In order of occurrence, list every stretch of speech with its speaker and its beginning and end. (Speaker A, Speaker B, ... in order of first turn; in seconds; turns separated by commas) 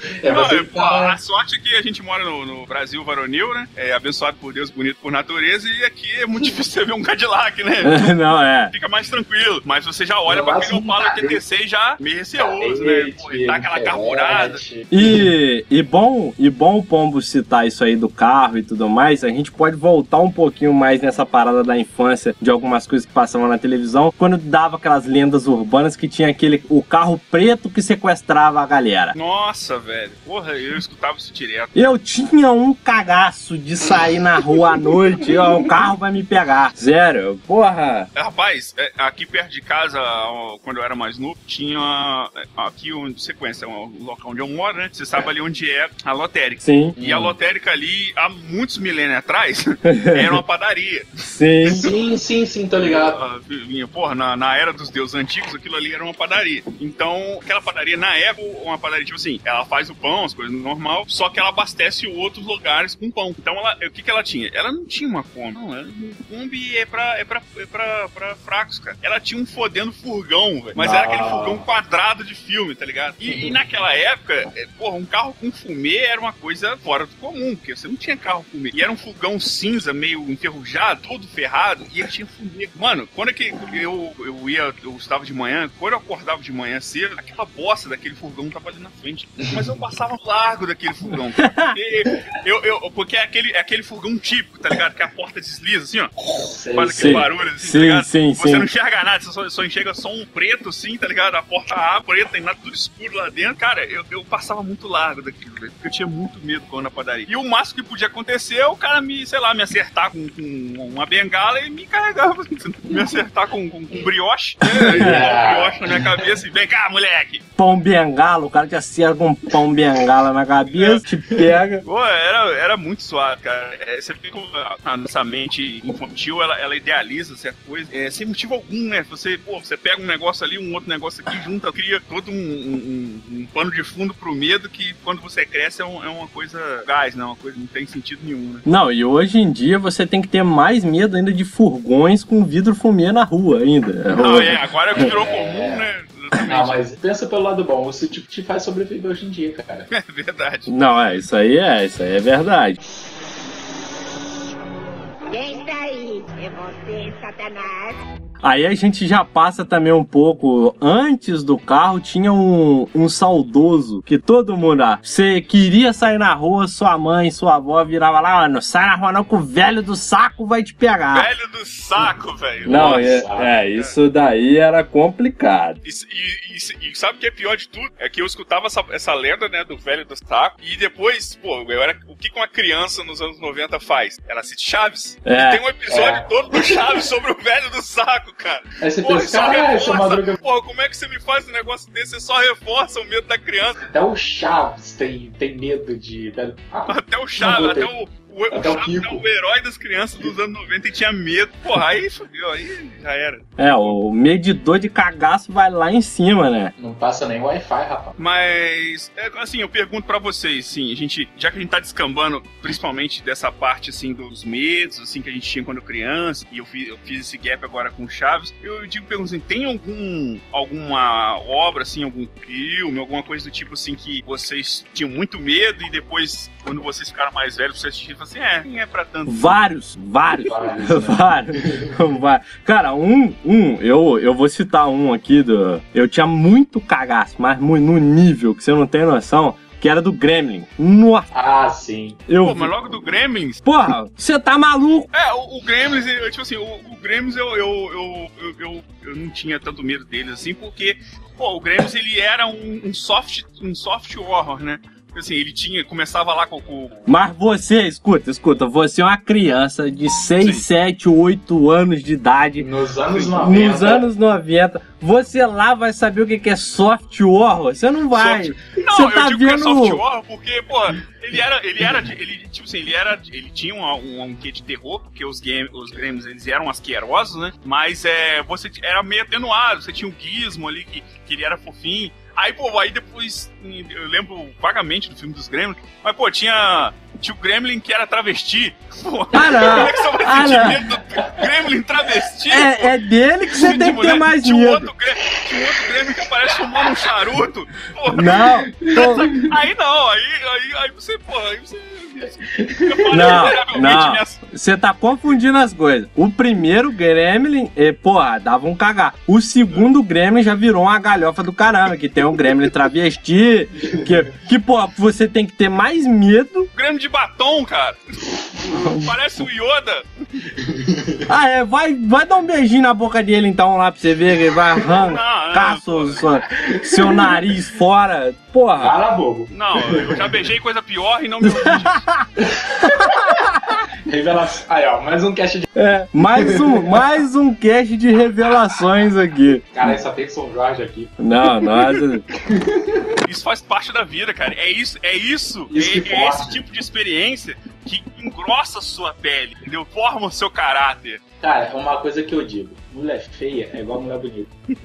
Speaker A: 0.2-1.2, Speaker B: 0.2-8.1, Speaker C: 7.8-8.7, Speaker B: 8.7-14.6, Speaker A: 10.3-11.4, Speaker A: 12.4-15.2, Speaker C: 14.9-29.1, Speaker B: 29.1-31.9, Speaker C: 31.8-38.1, Speaker B: 38.1-51.9, Speaker C: 46.6-47.0, Speaker A: 47.0-47.4, Speaker C: 49.9-50.4, Speaker C: 51.2-51.9, Speaker A: 51.6-53.2, Speaker B: 52.8-96.1, Speaker A: 70.8-71.6, Speaker A: 73.3-73.5, Speaker A: 89.4-89.7, Speaker C: 91.4-91.7, Speaker A: 96.3-97.3, Speaker B: 96.7-117.5, Speaker C: 97.0-98.7, Speaker C: 114.7-115.2, Speaker A: 114.9-116.3, Speaker C: 117.6-121.8, Speaker B: 120.7-121.0, Speaker B: 121.8-138.7, Speaker C: 138.7-144.6, Speaker B: 144.1-146.9, Speaker A: 145.0-145.8, Speaker A: 146.5-149.9, Speaker B: 149.9-150.7, Speaker C: 150.7-152.8, Speaker D: 155.3-158.0, Speaker C: 158.4-171.3, Speaker B: 171.1-173.9, Speaker A: 172.7-173.5, Speaker C: 172.7-175.8, Speaker B: 175.8-193.8, Speaker C: 185.3-185.6, Speaker A: 185.9-186.8, Speaker A: 188.8-190.4, Speaker A: 193.8-197.9, Speaker B: 196.9-203.9, Speaker A: 198.5-199.2, Speaker C: 203.6-206.7, Speaker A: 206.8-208.2, Speaker B: 208.2-229.6, Speaker C: 229.3-241.3, Speaker A: 230.4-231.9, Speaker A: 241.3-242.2, Speaker C: 242.3-242.7, Speaker B: 242.4-243.6, Speaker C: 243.7-245.1, Speaker B: 245.1-257.0, Speaker C: 257.1-262.7, Speaker A: 262.6-264.1, Speaker C: 263.4-270.0, Speaker B: 268.1-293.0, Speaker C: 289.3-290.9, Speaker C: 292.5-294.9, Speaker B: 293.5-304.4, Speaker A: 295.3-297.1, Speaker C: 298.1-299.3, Speaker A: 298.7-299.5, Speaker A: 302.5-303.4, Speaker C: 303.1-316.7, Speaker B: 316.8-320.1, Speaker C: 318.7-319.1, Speaker A: 320.6-321.2, Speaker C: 321.3-329.0, Speaker B: 324.9-326.4, Speaker A: 326.5-327.4, Speaker A: 328.8-330.2, Speaker B: 329.5-332.1, Speaker C: 331.4-332.2, Speaker A: 332.4-333.3, Speaker C: 333.1-333.6, Speaker A: 334.1-335.7, Speaker C: 335.8-340.0, Speaker A: 336.4-336.9, Speaker A: 339.7-341.1, Speaker C: 341.2-342.2, Speaker A: 342.4-343.2, Speaker B: 343.2-351.2, Speaker A: 345.7-346.6, Speaker A: 351.4-354.5